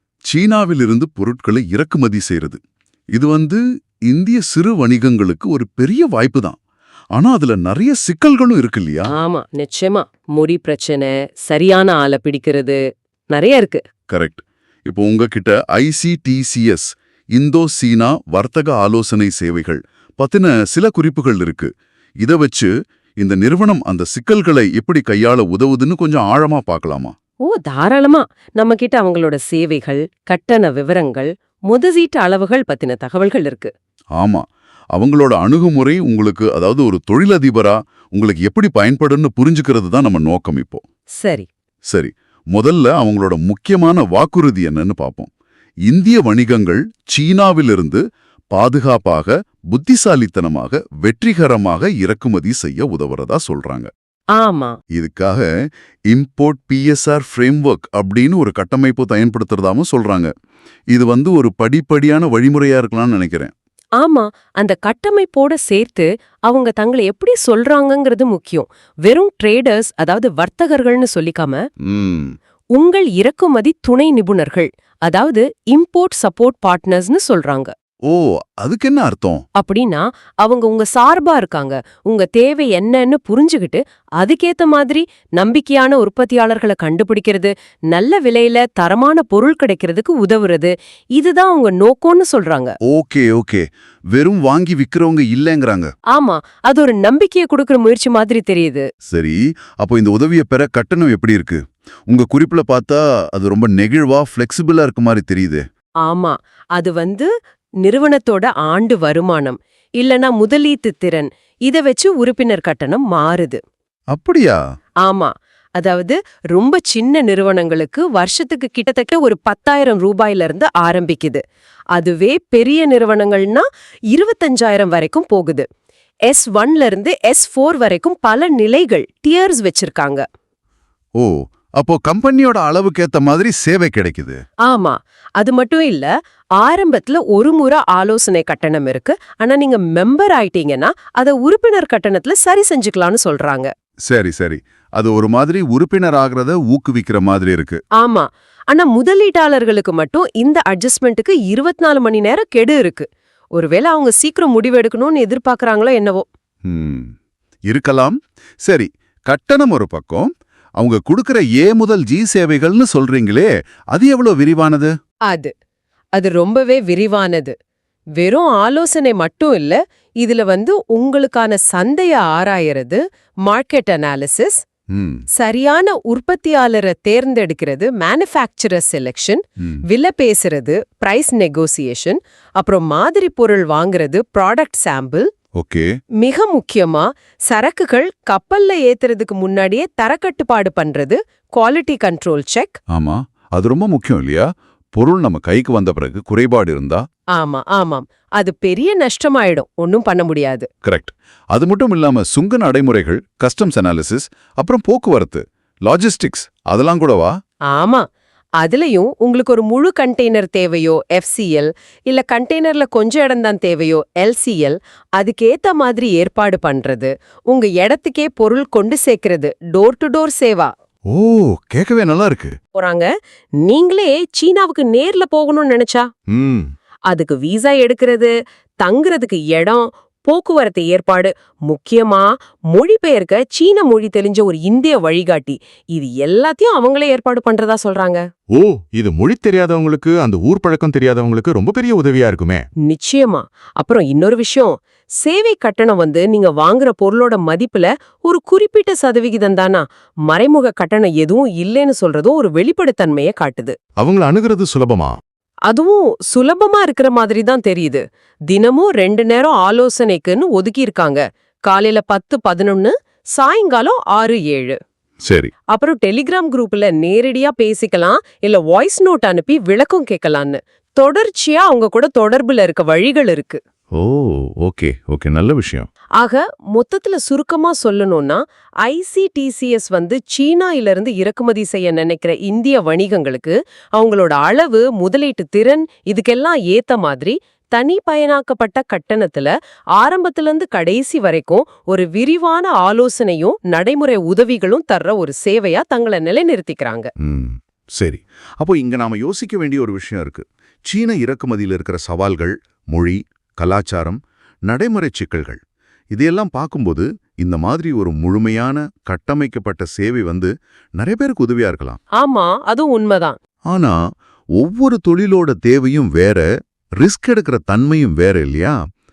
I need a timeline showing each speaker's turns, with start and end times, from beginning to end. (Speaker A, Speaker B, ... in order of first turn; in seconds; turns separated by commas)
Speaker A: 0.3-2.6, Speaker A: 3.1-6.6, Speaker A: 7.2-9.1, Speaker B: 9.1-12.8, Speaker B: 13.3-13.8, Speaker A: 14.1-21.7, Speaker A: 22.2-27.1, Speaker B: 27.4-33.7, Speaker A: 34.2-40.8, Speaker B: 41.2-41.5, Speaker A: 41.9-45.3, Speaker A: 45.9-53.9, Speaker B: 54.4-54.8, Speaker A: 54.9-55.5, Speaker A: 56.1-60.3, Speaker A: 60.9-63.5, Speaker B: 64.0-71.6, Speaker A: 71.8-72.3, Speaker B: 72.7-77.7, Speaker A: 78.1-79.4, Speaker B: 79.5-92.8, Speaker A: 92.8-95.9, Speaker B: 96.1-98.9, Speaker A: 99.1-105.6, Speaker B: 106.0-107.3, Speaker B: 107.8-113.6, Speaker A: 114.1-114.6, Speaker B: 115.0-121.4, Speaker B: 121.9-125.6, Speaker B: 126.3-130.2, Speaker A: 131.2-134.4, Speaker B: 134.7-143.7, Speaker A: 144.1-147.8, Speaker B: 148.0-156.2, Speaker A: 156.7-157.1, Speaker A: 157.7-164.9, Speaker B: 166.2-167.5, Speaker B: 168.2-174.6, Speaker A: 174.9-175.2, Speaker B: 175.3-185.3, Speaker A: 185.6-185.9, Speaker B: 186.2-192.8, Speaker A: 192.9-197.0, Speaker B: 197.3-200.7, Speaker A: 200.8-207.3, Speaker B: 207.7-208.0, Speaker B: 208.6-220.7, Speaker A: 221.1-222.5, Speaker B: 222.7-223.1, Speaker B: 223.6-226.1, Speaker B: 227.1-238.2, Speaker C: 238.5-242.6, Speaker B: 242.8-253.8, Speaker C: 254.0-255.2, Speaker B: 255.7-264.8, Speaker A: 265.2-265.5, Speaker B: 265.7-273.6, Speaker A: 273.9-275.9, Speaker B: 276.2-297.1, Speaker A: 297.2-305.6, Speaker A: 306.1-312.0, Speaker B: 312.2-313.4, Speaker A: 313.7-314.0, Speaker A: 314.6-316.4, Speaker A: 317.0-318.8